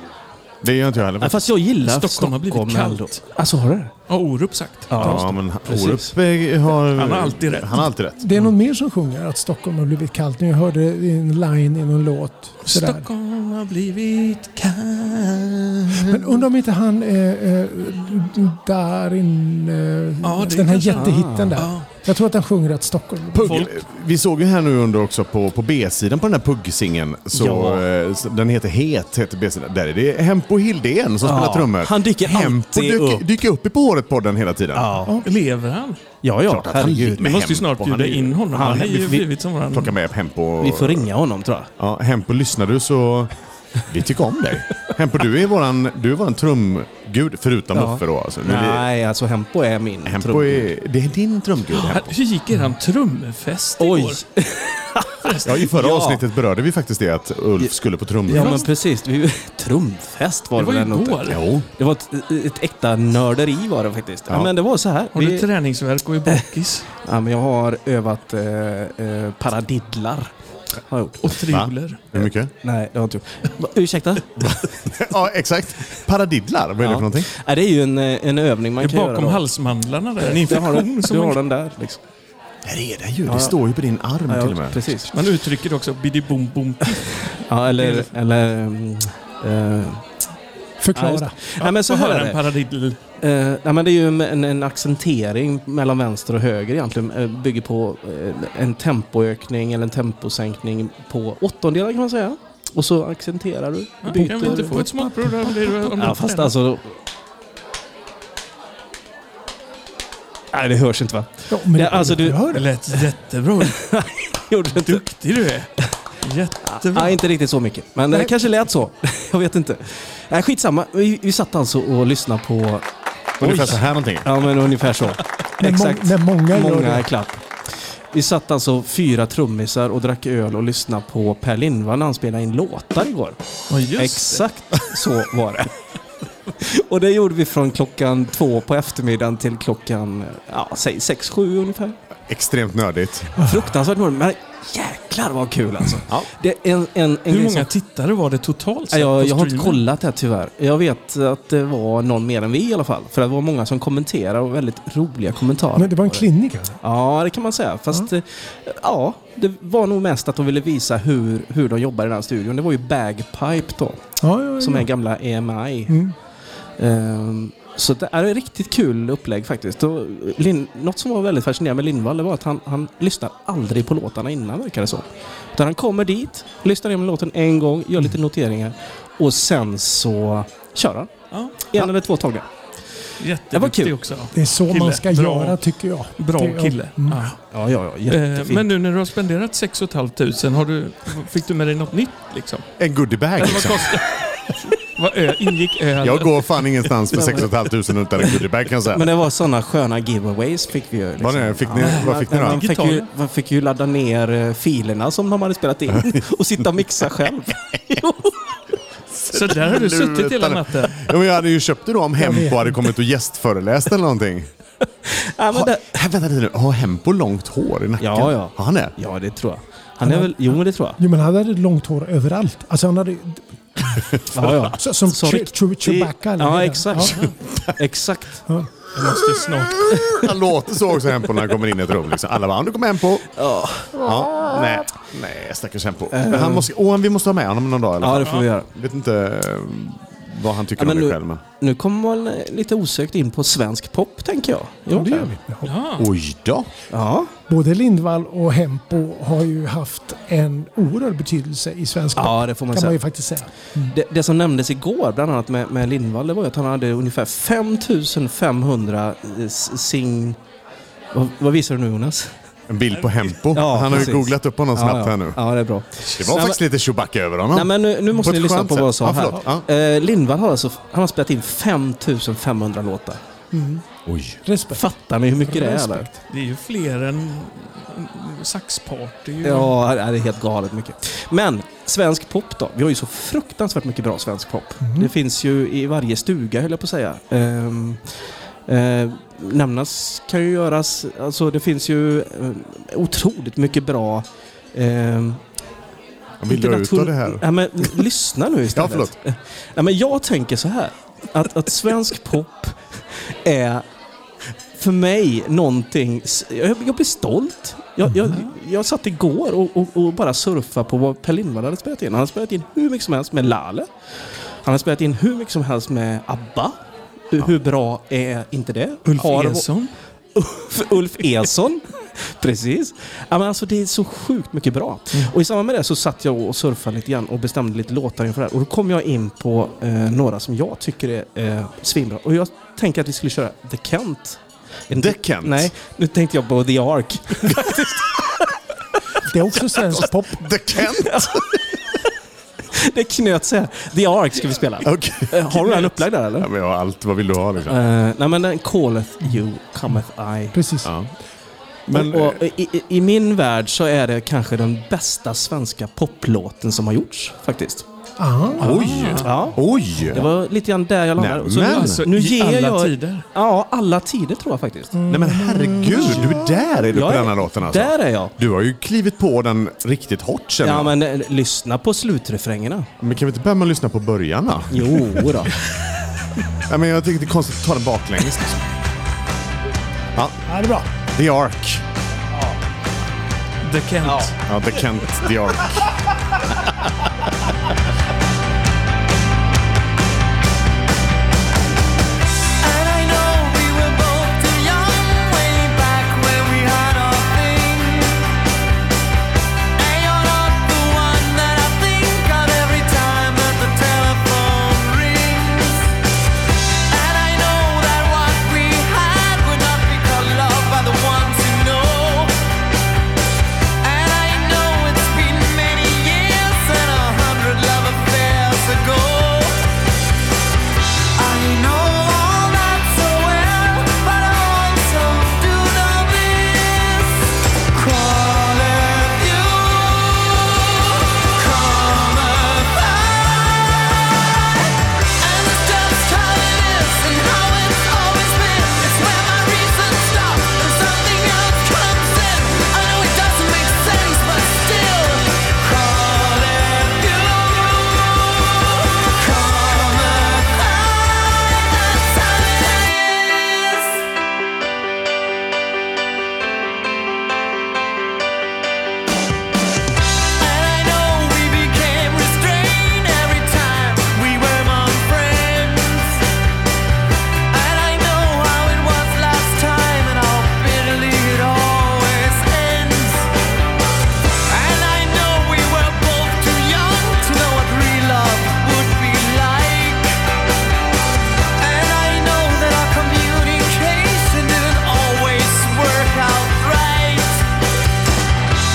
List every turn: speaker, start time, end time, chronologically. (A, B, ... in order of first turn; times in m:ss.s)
0:00.6-0:01.5 A
0:01.2-0:03.9 B
0:01.8-0:03.2 C
0:04.1-0:05.3 C
0:04.9-0:06.1 B
0:05.0-0:08.3 A
0:06.8-0:07.9 C
0:08.2-0:13.1 D
0:12.7-0:16.1 C
0:16.0-0:23.6 D
0:20.2-0:21.9 C
0:21.0-0:21.7 B
0:23.3-0:35.0 A
0:23.4-0:23.8 C
0:27.3-0:27.8 B
0:31.2-0:33.2 B
0:34.8-0:35.2 B
0:35.2-0:36.0 C
0:36.2-0:37.3 B
0:36.5-0:38.4 A
0:37.2-0:40.0 C
0:38.5-0:39.3 B
0:39.7-0:41.1 A
0:40.6-0:41.7 B
0:41.8-0:48.9 A
0:47.7-0:50.7 B
0:50.1-0:52.2 A
0:51.8-0:54.2 C
0:53.8-0:56.2 B
0:55.2-0:55.7 C
0:55.4-0:58.6 A
0:58.3-1:05.5 B
0:58.3-0:58.7 C
1:00.6-1:01.4 C
1:01.3-1:01.7 A
1:05.1-1:06.9 C
1:07.0-1:10.3 B
1:10.9-1:11.3 B
1:11.2-1:12.2 C
1:11.4-1:12.5 A
1:12.6-1:15.0 B
1:14.4-1:17.3 A
1:16.8-1:19.5 B
1:18.8-1:21.4 C
1:20.2-1:22.0 B
1:22.6-1:25.0 A
1:23.3-1:23.6 B
1:24.3-1:25.2 B
1:25.1-1:28.1 C
1:27.0-1:30.1 B
1:30.8-1:31.4 D
1:31.0-1:32.5 B
1:31.6-1:33.0 C
1:33.2-1:44.8 B
1:44.0-1:46.6 C
1:44.1-1:45.9 D
1:45.9-1:47.0 B
1:50.5-1:53.1 B
1:51.5-1:52.7 D
1:52.5-1:53.8 C
1:53.6-1:55.1 B
1:54.7-1:57.2 C
1:56.6-2:02.9 B
2:03.4-2:04.4 A
2:03.4-2:07.4 B
2:05.6-2:07.1 D
2:08.1-2:13.4 B
2:13.7-2:14.5 C
2:14.0-2:15.8 B
2:16.5-2:22.0 B
2:22.3-2:23.4 A
2:23.4-2:27.7 B
2:27.3-2:29.8 C
2:28.9-2:36.3 B
2:35.8-2:36.8 D
2:36.8-2:44.1 B
2:44.2-2:44.9 D
2:44.6-2:46.0 B
2:45.9-2:46.1 D
2:46.8-3:01.1 B
3:01.3-3:01.9 C
3:01.7-3:02.5 B
3:03.2-3:05.6 C
3:03.5-3:04.0 B
3:04.3-3:07.3 D
3:06.2-3:07.4 C
3:07.5-3:08.7 B
3:08.1-3:12.7 C
3:12.8-3:14.0 A
3:13.4-3:17.5 C
3:16.0-3:19.1 A
3:17.2-3:17.4 B
3:18.9-3:28.6 B
3:21.2-3:22.6 A
3:21.8-3:23.1 C
3:27.5-3:28.0 A
3:29.2-3:34.5 A
3:29.3-3:31.1 C
3:32.2-3:32.8 D
3:35.0-3:35.9 B
3:35.5-3:39.0 A
3:38.0-3:41.0 B
3:40.0-3:40.3 D
3:41.0-3:44.1 D
3:44.3-3:48.4 B
3:44.6-3:47.1 D
3:47.0-3:47.4 C
3:47.3-3:47.7 A
3:49.0-3:50.1 C
3:49.8-3:53.4 A
3:53.4-3:54.0 B
3:53.9-4:01.4 A
3:56.1-3:56.7 B
3:58.0-3:58.7 B
3:58.2-3:58.5 C
4:00.8-4:05.3 B
4:04.9-4:05.7 D
4:05.6-4:06.1 C
4:06.0-4:06.7 A
4:06.9-4:07.3 B
4:07.5-4:13.9 D
4:12.2-4:13.0 B
4:13.8-4:20.4 B
4:21.1-4:22.3 B
4:22.7-4:25.4 A
4:23.5-4:26.6 B
4:26.2-4:29.7 A
4:27.5-4:33.2 B
4:33.5-4:33.8 D
4:34.1-4:34.4 A
4:34.4-4:34.9 D
4:34.7-4:36.1 B
4:35.4-4:36.1 D
4:36.3-4:39.8 C
4:39.4-4:48.1 B
4:44.8-4:45.1 D
4:48.7-4:55.4 B
4:56.4-4:58.0 A
4:56.5-5:03.8 B
4:58.8-4:59.1 A
5:04.7-5:13.9 B
5:14.6-5:16.8 B
5:17.3-5:19.7 B
5:19.0-5:19.9 C
5:20.4-5:38.4 B
5:34.9-5:35.7 A
5:39.2-5:40.4 D
5:40.0-5:41.5 A
5:40.8-5:41.6 B
5:42.7-5:46.5 B
5:44.8-5:47.8 A
5:47.7-5:50.6 B
5:50.5-5:50.9 D
5:50.8-5:51.1 A
5:51.9-5:52.4 A
5:51.9-5:57.8 B
5:58.2-5:58.8 D
5:58.6-6:00.3 A
5:58.6-5:59.5 C
5:59.2-6:05.0 B
6:01.2-6:02.1 A
6:01.7-6:03.3 C
6:05.0-6:06.4 D
6:05.1-6:11.0 A
6:06.9-6:08.3 B
6:10.6-6:12.9 B
6:13.0-6:15.3 A
6:14.7-6:15.5 B
6:16.7-6:18.6 A
6:20.2-6:20.4 A
6:20.5-6:20.9 D
6:21.0-6:21.8 A
6:23.6-6:24.4 C
6:24.0-6:24.3 B
6:24.4-6:26.0 A
6:26.5-6:27.1 A
6:32.6-6:38.3 E
6:39.8-6:46.0 E
6:46.9-6:52.4 E
6:53.8-6:59.8 E
7:01.2-7:34.0 E
7:40.4-7:46.3 E
7:47.5-7:53.3 E
7:54.5-8:00.2 E
8:01.6-8:07.5 E